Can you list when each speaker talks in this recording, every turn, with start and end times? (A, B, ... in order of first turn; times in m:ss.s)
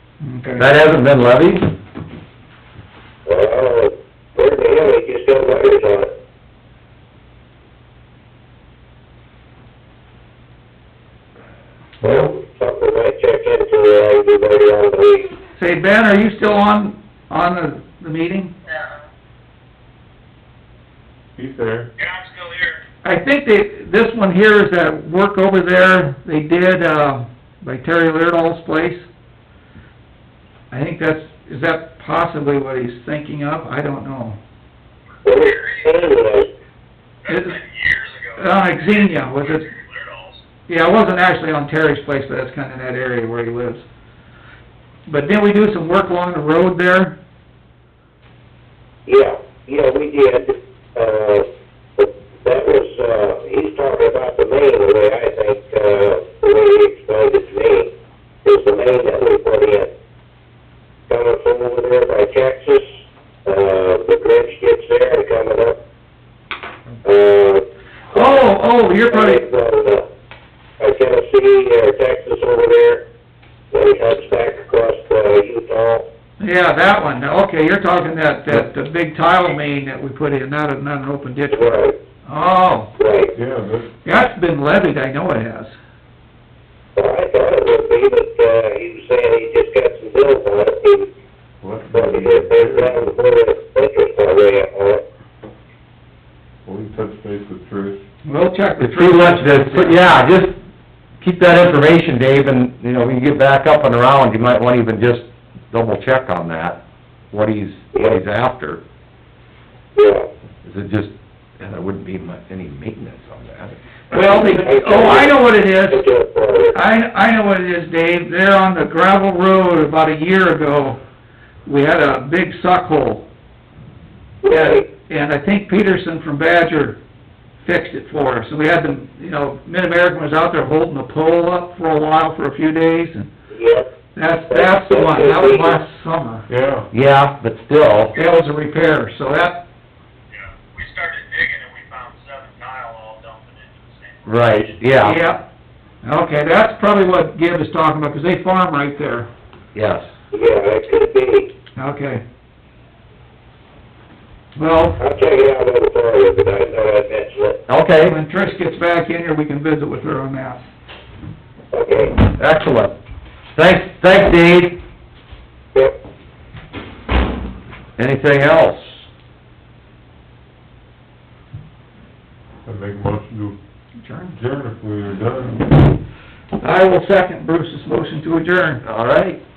0:00.2-0:00.6 A
0:00.6-0:01.7 B
0:03.2-0:06.1 C
0:12.0-0:15.4 C
0:12.0-0:12.3 A
0:15.6-0:18.5 A
0:18.7-0:19.0 D
0:21.4-0:21.9 E
0:22.0-0:22.8 D
0:23.0-0:29.1 A
0:30.7-0:34.4 A
0:35.2-0:36.2 D
0:35.2-0:36.5 C
0:37.2-0:40.4 D
0:37.3-0:37.6 A
0:38.4-0:39.7 A
0:40.7-0:43.8 A
0:45.1-0:47.2 A
0:49.0-0:51.4 C
0:52.0-0:57.9 C
0:58.4-0:59.9 C
1:01.1-1:05.8 C
1:07.0-1:08.5 C
1:08.1-1:09.4 A
1:09.1-1:10.1 C
1:10.8-1:13.0 C
1:13.7-1:16.1 C
1:16.4-1:22.9 A
1:21.5-1:22.0 C
1:23.0-1:23.3 C
1:23.3-1:23.9 E
1:24.0-1:25.8 A
1:27.0-1:31.1 C
1:31.6-1:33.1 E
1:31.9-1:35.0 C
1:36.6-1:38.0 E
1:38.2-1:40.0 A
1:38.8-1:40.6 B
1:41.2-1:46.8 B
1:47.3-1:48.8 B
1:47.9-1:48.2 C
1:49.9-1:50.3 C
1:50.6-1:53.8 B
1:54.1-1:56.0 A
1:54.1-1:56.8 C
1:56.7-2:01.0 A
2:01.6-2:03.3 A
2:04.4-2:04.8 C
2:04.5-2:07.0 A
2:07.6-2:13.3 A
2:13.5-2:13.9 C
2:14.2-2:16.4 A
2:14.5-2:15.8 C
2:16.5-2:16.9 E
2:16.9-2:18.2 B
2:18.2-2:19.6 A
2:20.3-2:24.7 D
2:24.2-2:25.2 B
2:25.0-2:25.4 A
2:26.0-2:29.3 A
2:29.7-2:30.1 B
2:30.3-2:31.5 C
2:31.8-2:32.2 A
2:34.6-2:35.0 A
2:35.0-2:37.6 C
2:37.7-2:38.1 B
2:38.0-2:40.6 A
2:41.7-2:42.1 C
2:42.2-2:42.9 B
2:43.5-2:44.8 B
2:48.0-2:49.0 B
2:52.6-2:53.6 E
2:54.0-2:54.3 A
2:54.3-2:55.9 E
2:56.6-2:58.8 A
2:58.8-2:59.4 B